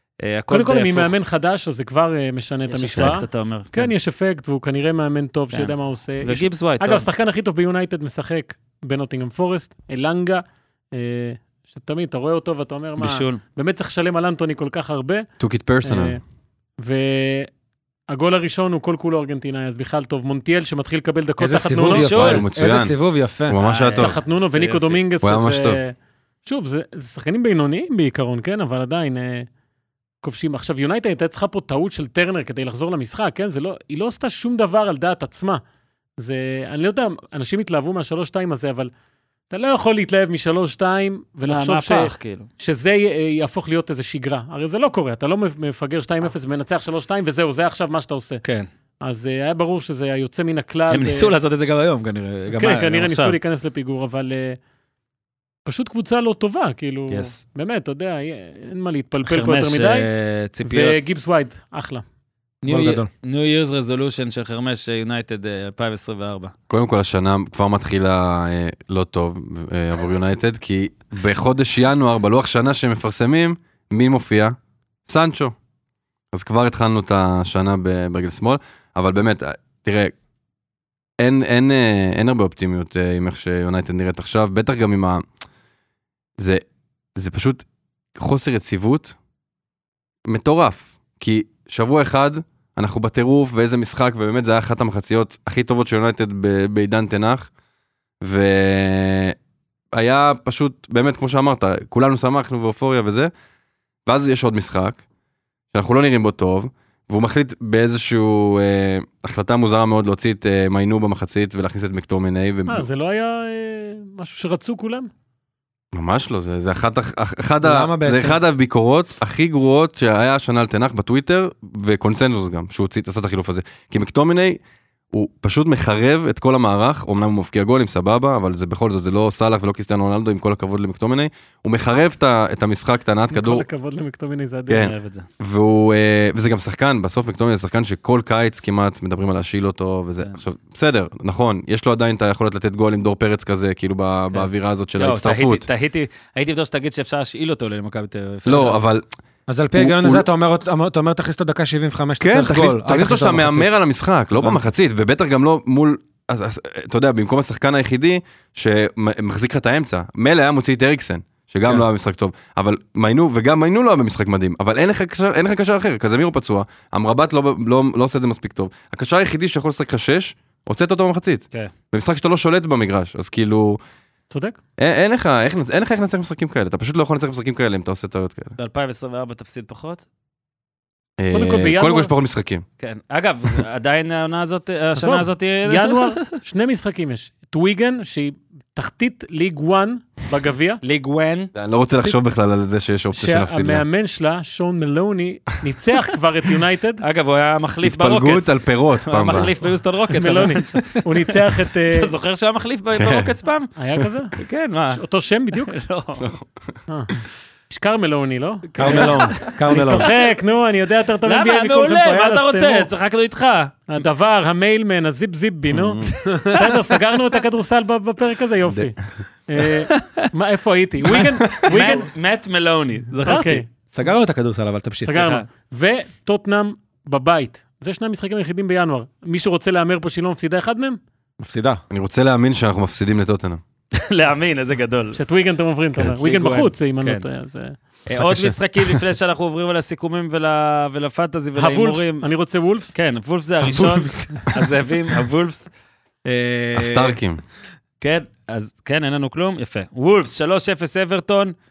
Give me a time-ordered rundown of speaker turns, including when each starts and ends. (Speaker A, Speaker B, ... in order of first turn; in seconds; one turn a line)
Speaker A: 0.2-1.1
Speaker B: 0.5-15.3
Speaker A: 2.7-3.9
Speaker A: 5.5-7.1
Speaker A: 13.0-13.4
Speaker C: 15.4-16.2
Speaker B: 15.8-16.2
Speaker B: 16.8-17.5
Speaker B: 18.1-22.4
Speaker D: 21.4-23.6
Speaker A: 21.9-22.4
Speaker C: 22.0-22.9
Speaker C: 23.5-24.2
Speaker A: 23.6-25.0
Speaker B: 24.0-25.9
Speaker C: 25.2-25.8
Speaker B: 26.4-29.5
Speaker B: 30.2-35.6
Speaker B: 36.2-38.9
Speaker B: 39.5-48.4
Speaker A: 41.5-42.5
Speaker B: 49.0-51.3
Speaker A: 50.9-53.4
Speaker B: 52.5-54.6
Speaker B: 55.6-60.1
Speaker A: 57.1-57.4
Speaker A: 59.2-61.0
Speaker B: 60.6-62.0
Speaker A: 62.6-66.5
Speaker D: 62.7-63.1
Speaker C: 66.7-75.5
Speaker C: 76.3-80.1
Speaker C: 81.2-85.2
Speaker C: 86.4-86.6
Speaker C: 87.1-87.6
Speaker C: 88.2-89.2
Speaker C: 90.3-97.5
Speaker C: 98.2-99.3
Speaker C: 99.9-103.3
Speaker C: 104.0-105.0
Speaker C: 105.7-112.9
Speaker B: 112.7-115.1
Speaker C: 115.9-124.6
Speaker D: 117.6-118.4
Speaker C: 125.1-133.6
Speaker B: 133.3-134.9
Speaker C: 134.7-145.7
Speaker A: 134.9-135.3
Speaker A: 144.3-148.8
Speaker C: 148.4-149.1
Speaker D: 149.5-153.8
Speaker C: 149.7-150.2
Speaker C: 152.2-173.8
Speaker D: 154.3-154.6
Speaker B: 174.3-174.6
Speaker C: 174.8-178.5
Speaker A: 178.6-180.0
Speaker C: 181.2-182.6
Speaker B: 181.3-182.1
Speaker A: 182.8-186.3
Speaker B: 184.9-190.8
Speaker A: 190.8-191.5
Speaker C: 191.5-193.8
Speaker B: 193.1-197.0
Speaker A: 197.0-203.7
Speaker C: 197.8-199.5
Speaker B: 200.2-202.1
Speaker C: 203.0-203.3
Speaker B: 203.8-204.3
Speaker A: 204.3-205.0
Speaker B: 204.9-205.7
Speaker A: 205.6-206.3
Speaker C: 206.2-206.5
Speaker B: 206.9-207.1
Speaker B: 207.7-212.9
Speaker A: 208.7-210.3
Speaker D: 208.8-210.1
Speaker A: 211.2-213.9
Speaker B: 213.9-222.1
Speaker C: 215.7-216.1
Speaker A: 216.2-217.0
Speaker A: 219.6-220.3
Speaker A: 221.0-223.6
Speaker B: 223.2-223.6
Speaker D: 223.9-225.2
Speaker B: 225.1-231.0
Speaker A: 225.1-225.4
Speaker D: 231.4-231.8
Speaker C: 231.9-233.6
Speaker A: 233.9-235.2
Speaker B: 235.1-237.8
Speaker A: 236.0-237.2
Speaker A: 238.1-242.3
Speaker C: 238.2-238.5
Speaker B: 241.6-242.9
Speaker A: 242.9-245.7
Speaker A: 246.2-247.2
Speaker C: 246.8-247.4
Speaker A: 248.0-251.5